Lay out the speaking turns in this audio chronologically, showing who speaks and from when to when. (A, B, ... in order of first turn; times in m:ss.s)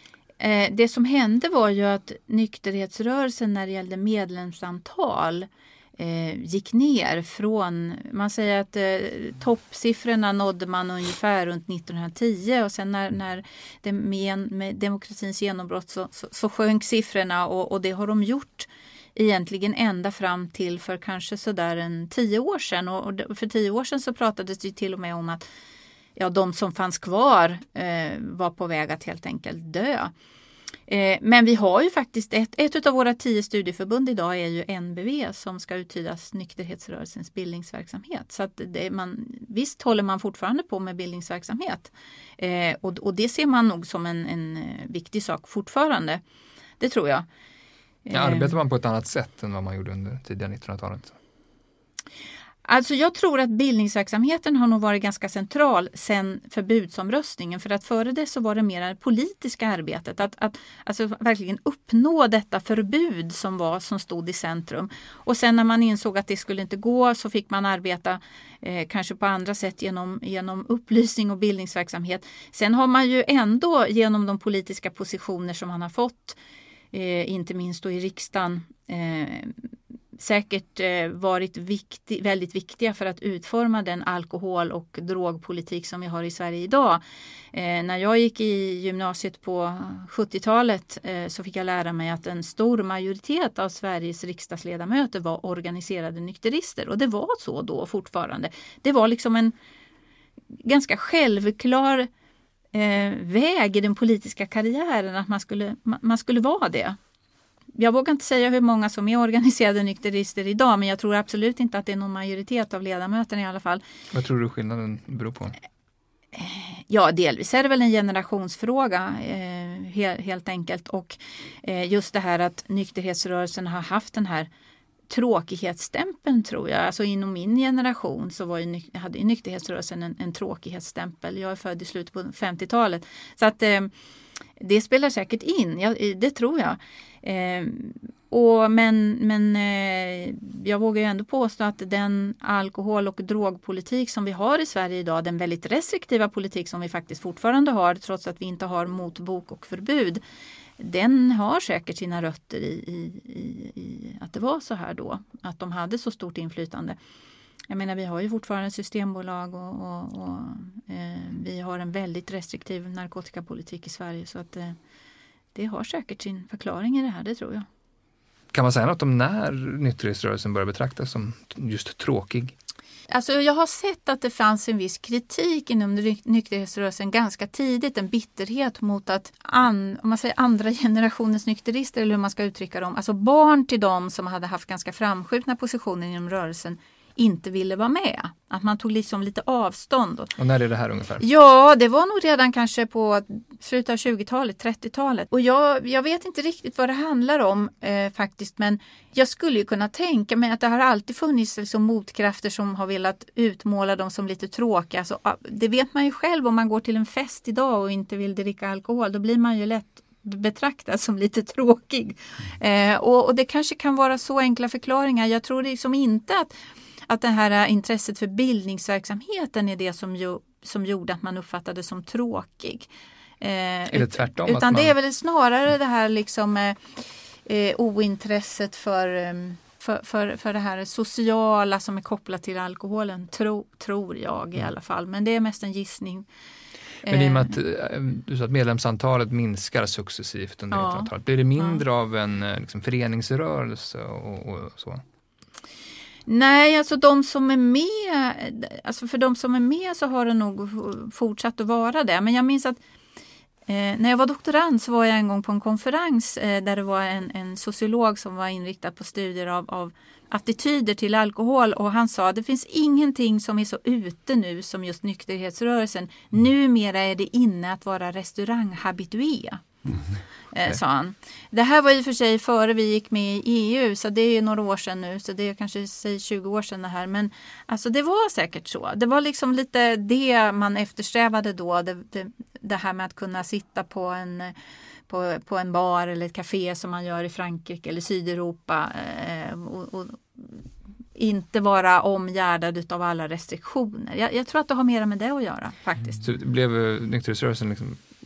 0:00.4-0:25.5 A
0:26.2-0:30.1 A
0:30.9-0:46.2 A
0:46.8-0:47.3 A
0:48.1-0:48.6 A
0:48.1-0:51.2 B
0:52.7-1:16.4 A
1:16.9-1:27.0 A
1:27.5-1:39.5 A
1:40.6-1:42.1 A
1:42.7-1:47.0 A
1:47.8-1:53.8 A
1:54.1-1:55.6 B
1:56.4-2:04.5 A
2:05.1-2:13.9 A
2:14.6-2:30.2 A
2:30.8-2:37.0 A
2:37.7-2:44.8 A
2:45.6-2:47.7 A
2:48.5-2:52.6 B
2:53.1-3:10.3 A
3:10.4-3:11.2 B
3:11.2-3:36.5 A
3:37.1-3:42.9 A
3:43.4-3:56.3 A
3:43.9-3:44.9 B
3:57.0-3:57.6 A
3:57.1-4:05.0 B
4:00.7-4:01.8 A
4:06.3-4:12.8 A
4:13.7-4:29.6 A
4:30.5-4:44.6 A
4:45.1-4:56.2 A
4:56.2-4:58.0 B